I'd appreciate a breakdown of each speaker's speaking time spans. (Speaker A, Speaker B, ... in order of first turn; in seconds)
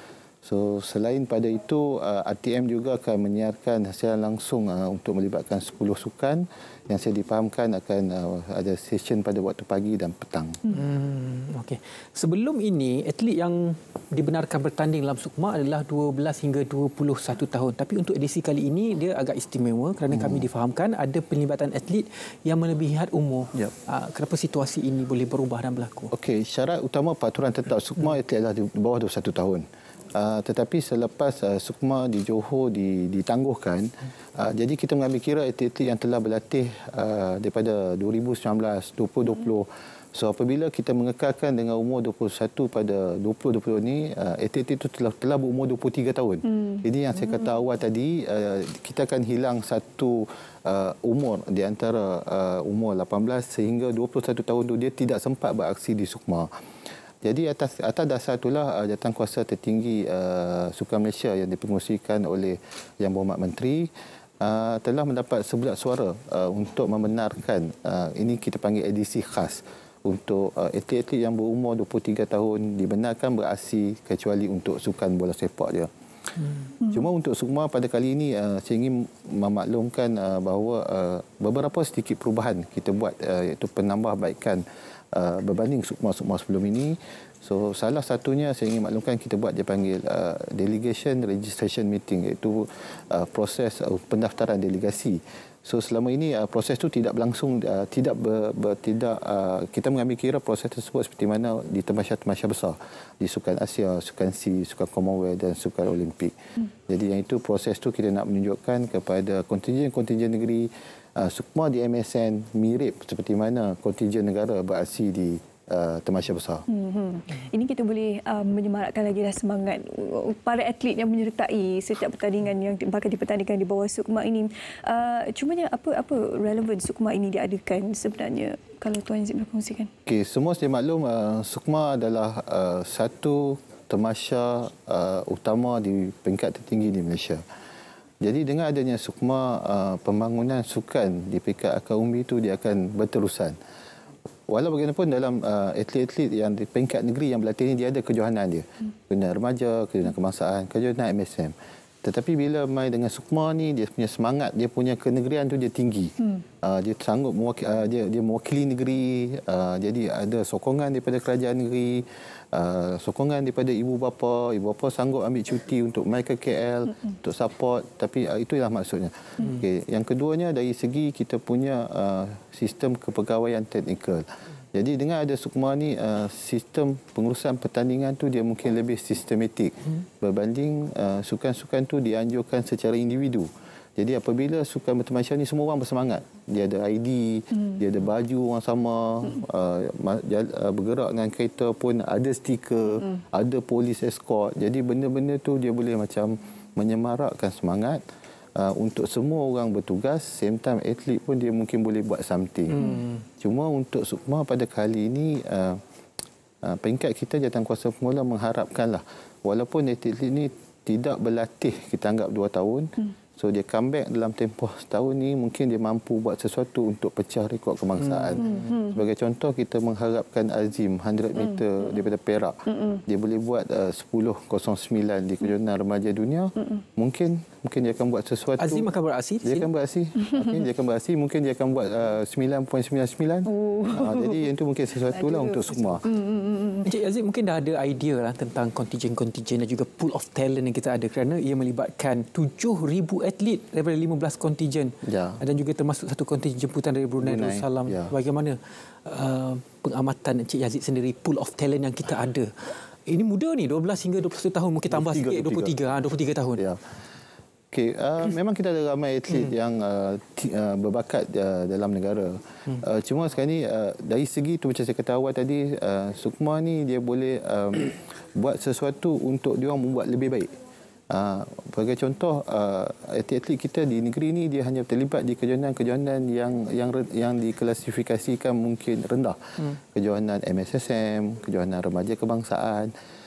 Speaker A: 0.4-10.6, 20.1-20.5, 26.1-29.6, 30.1-56.5, 57.2-75.9, 76.9-106.3, 106.9-116.7, 130.1-137.4, 138.2-143.6, 144.5-198.0, 198.6-202.8, 203.4-205.8, 206.6-228.9, 229.4-236.0, 245.0-245.4, 247.2-248.1, 254.9-255.8, 257.7-270.5, 271.1-279.4, 279.9-282.9
Speaker B: 10.7-26.1, 202.7-203.2, 218.1-218.4, 228.6-229.7, 236.8-256.6
Speaker C: 46.5-46.8, 116.7-129.9, 218.4-219.0, 222.7-223.0, 230.2-230.6, 233.5-234.5, 235.1-236.9